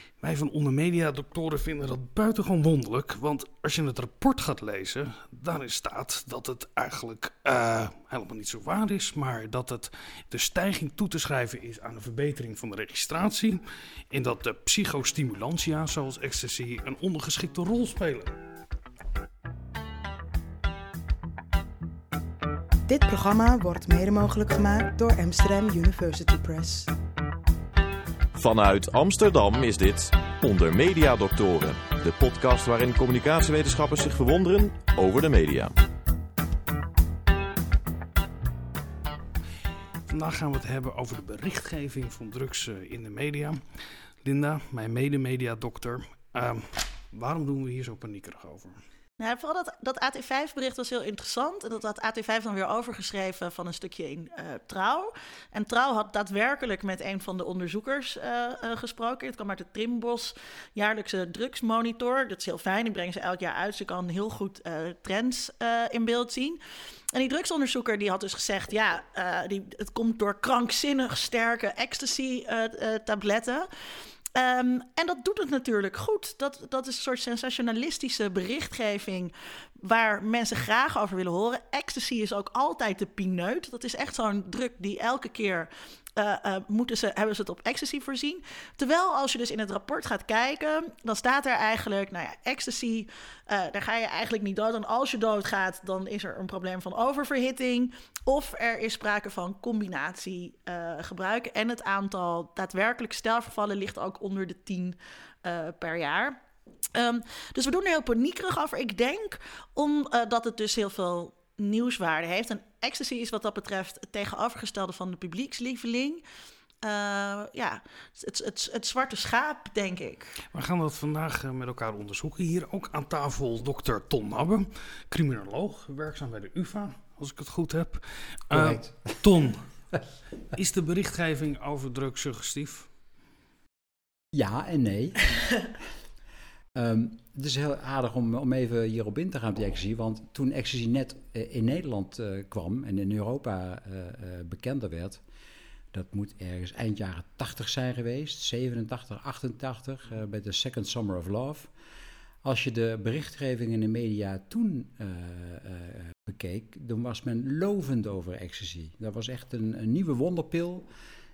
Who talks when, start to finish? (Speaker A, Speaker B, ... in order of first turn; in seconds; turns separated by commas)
Speaker A: 0.2-18.3, Speaker B: 22.9-26.9, Speaker C: 28.4-35.7, Speaker A: 40.1-43.6, Speaker A: 44.2-48.8, Speaker D: 49.2-66.6, Speaker D: 67.1-73.7, Speaker D: 74.3-106.4, Speaker D: 107.0-116.2, Speaker D: 116.8-120.3, Speaker A: 120.5-129.6, Speaker E: 128.5-129.2, Speaker A: 130.5-132.9, Speaker E: 134.3-135.2, Speaker E: 136.7-145.2, Speaker E: 145.9-151.7, Speaker E: 152.4-160.9